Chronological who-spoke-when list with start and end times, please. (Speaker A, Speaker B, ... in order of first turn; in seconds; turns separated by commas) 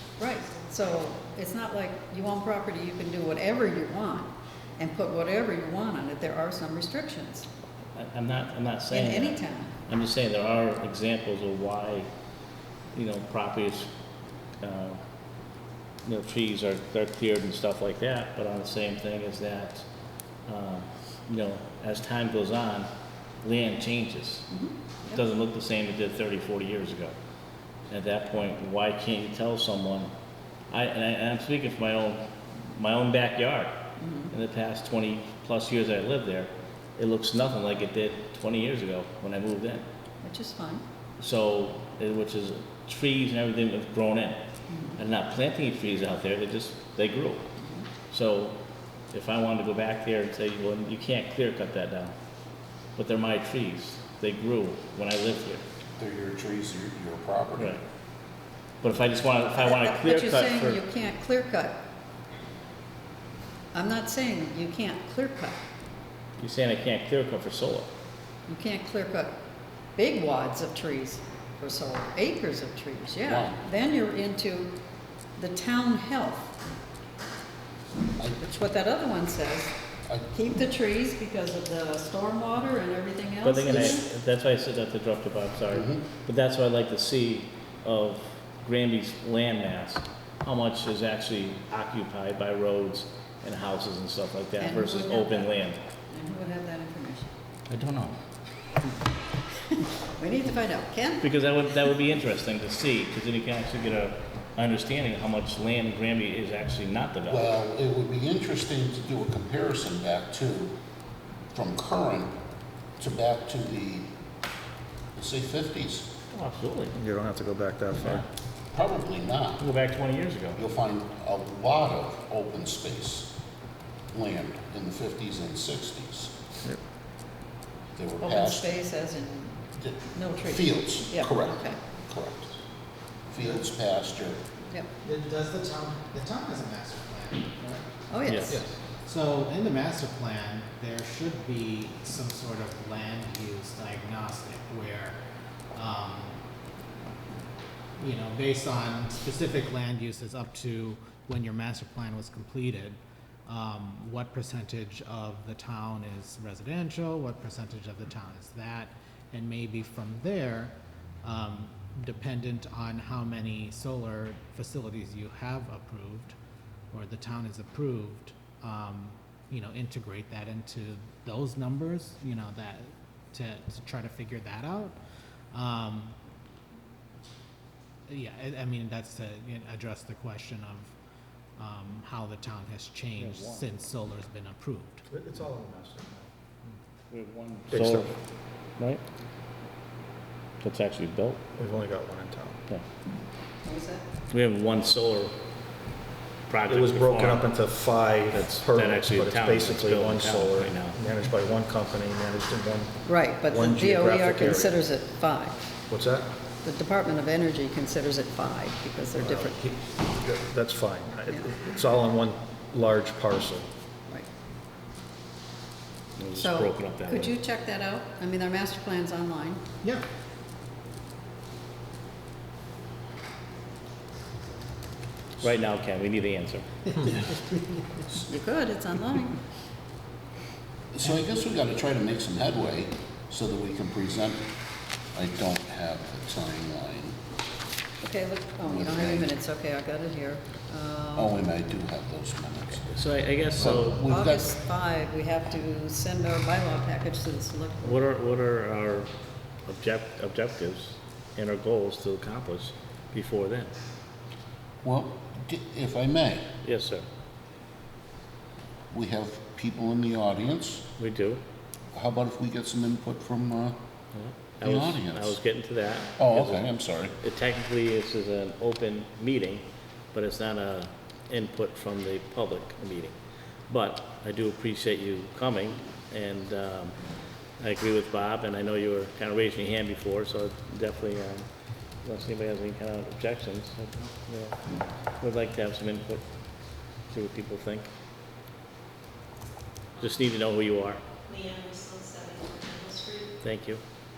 Speaker A: 0.2-7.5, Speaker B: 8.0-12.1, Speaker A: 8.9-9.7, Speaker B: 12.9-13.9, Speaker B: 14.6-15.0, Speaker B: 16.1-19.9, Speaker B: 20.5-22.9, Speaker B: 23.4-24.5, Speaker A: 24.5-25.2, Speaker B: 25.1-27.1, Speaker B: 27.9-30.1, Speaker B: 30.7-39.9, Speaker A: 34.0-34.3, Speaker A: 40.2-40.8, Speaker B: 41.2-44.5, Speaker A: 44.7-45.0, Speaker B: 45.0-47.5, Speaker A: 47.6-47.9, Speaker B: 48.1-48.6, Speaker B: 49.1-52.1, Speaker B: 53.0-55.6, Speaker C: 56.0-57.8, Speaker B: 57.6-57.8, Speaker B: 58.8-60.8, Speaker A: 59.5-61.8, Speaker A: 63.7-65.6, Speaker B: 66.4-67.9, Speaker A: 68.5-69.3, Speaker A: 70.0-74.7, Speaker C: 73.2-73.6, Speaker A: 75.4-76.5, Speaker A: 78.4-79.7, Speaker A: 80.3-84.0, Speaker B: 83.4-95.8, Speaker C: 85.7-86.0, Speaker A: 94.6-95.5, Speaker A: 96.1-97.3, Speaker B: 97.7-98.2, Speaker A: 99.7-101.3, Speaker B: 101.2-107.5, Speaker C: 107.3-110.7, Speaker C: 111.5-112.3, Speaker C: 113.0-114.1, Speaker C: 115.2-116.1, Speaker B: 116.3-116.9, Speaker D: 117.0-118.2, Speaker B: 118.0-118.2, Speaker C: 118.7-119.7, Speaker B: 119.6-120.6, Speaker C: 120.5-123.3, Speaker C: 124.1-126.3, Speaker C: 127.9-128.7, Speaker A: 128.2-129.6, Speaker C: 129.8-132.5, Speaker A: 130.1-131.8, Speaker C: 133.3-134.4, Speaker E: 135.0-137.8, Speaker A: 138.1-138.6, Speaker B: 138.2-138.6, Speaker E: 138.5-145.2, Speaker D: 138.5-138.8, Speaker E: 145.7-146.4, Speaker E: 148.0-166.3, Speaker E: 166.9-174.9, Speaker E: 175.5-176.1, Speaker E: 178.1-180.9, Speaker E: 181.6-185.0, Speaker B: 183.2-183.7, Speaker D: 185.1-186.3, Speaker B: 187.1-188.1, Speaker D: 187.7-188.1, Speaker B: 190.6-191.4, Speaker D: 191.6-192.6, Speaker A: 193.6-194.0, Speaker B: 194.3-195.3, Speaker B: 196.5-197.5, Speaker D: 196.7-204.7, Speaker B: 198.3-201.0, Speaker A: 203.1-205.6, Speaker D: 205.9-206.3, Speaker A: 206.6-209.6, Speaker D: 209.1-213.7, Speaker B: 216.2-217.3, Speaker A: 216.3-219.6, Speaker B: 225.4-227.1, Speaker A: 228.3-229.4, Speaker C: 230.9-234.4, Speaker C: 235.1-237.2, Speaker A: 238.0-241.4, Speaker C: 238.6-239.3, Speaker C: 241.1-242.9, Speaker B: 242.9-244.0, Speaker C: 243.6-244.6, Speaker A: 244.0-248.1, Speaker B: 247.8-249.1, Speaker B: 249.7-253.7, Speaker C: 254.8-256.5, Speaker B: 256.6-257.1, Speaker C: 258.9-260.9, Speaker B: 261.0-261.4, Speaker C: 261.9-263.8, Speaker B: 264.1-273.1, Speaker C: 264.6-265.4, Speaker C: 266.2-267.1, Speaker B: 273.7-277.0, Speaker B: 277.6-281.4, Speaker B: 282.0-284.6, Speaker B: 285.2-286.2, Speaker B: 287.1-287.9, Speaker B: 290.0-291.0, Speaker F: 291.3-293.3, Speaker B: 293.4-293.8